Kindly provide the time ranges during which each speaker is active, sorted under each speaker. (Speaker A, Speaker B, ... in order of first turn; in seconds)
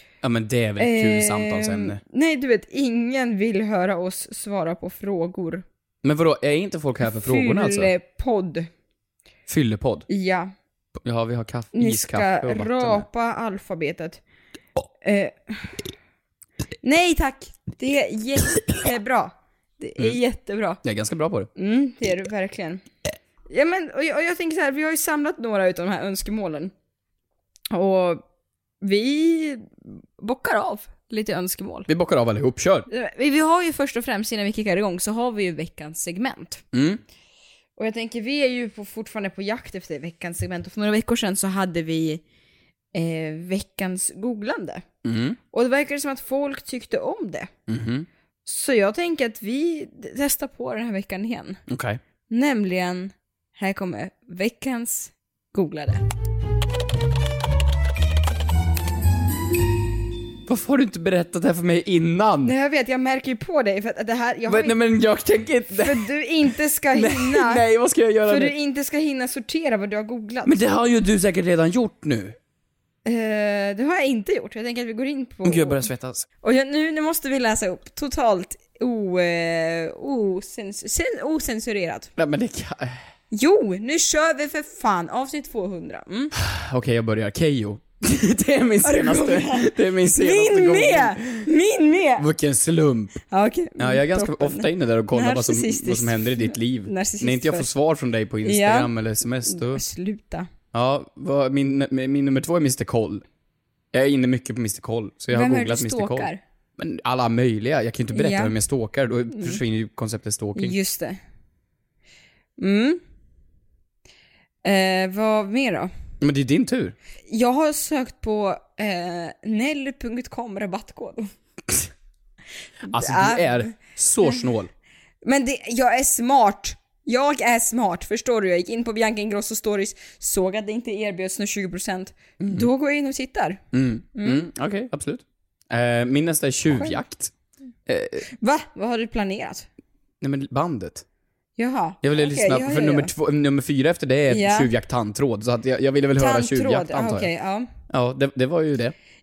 Speaker A: 0.2-2.0, 6.0-7.9, 9.5-10.1, 11.0-13.1, 20.8-21.5, 31.9-32.9, 36.7-37.0, 45.0-45.4, 47.7-48.1, 51.7-52.0, 60.5-62.5, 64.5-66.1, 66.9-68.5, 70.4-72.4, 75.4-76.2, 82.2-83.0, 86.3-91.5, 92.2-93.2, 93.8-99.8, 100.7-103.2, 103.9-110.8, 116.2-116.9, 122.9-124.7, 132.4-132.7, 133.7-137.3, 137.9-138.2, 140.2-141.0, 142.0-147.3, 147.9-148.9
Speaker B: 0.8-5.6, 7.1-8.7, 10.1-10.5, 11.7-14.2, 15.0-15.8, 16.8-20.8, 21.6-22.8, 23.5-26.7, 27.7-28.2, 28.8-31.9, 32.9-36.6, 37.8-42.2, 42.9-44.8, 45.5-47.5, 48.5-51.6, 52.3-56.0, 62.4-64.8, 65.8-67.6, 68.2-70.6, 73.0-75.8, 76.4-82.1, 83.3-86.3, 88.8-92.3, 93.3-97.7, 98.4-98.9, 99.4-100.5, 105.3-106.4, 108.1-108.5, 109.3-109.6, 110.5-111.2, 112.6-113.0, 114.6-115.9, 117.3-121.3, 122.8-123.7, 125.2-133.6, 134.1-134.5, 136.7-137.0, 138.3-139.7, 141.6-143.1, 144.3-144.7, 146.2-147.7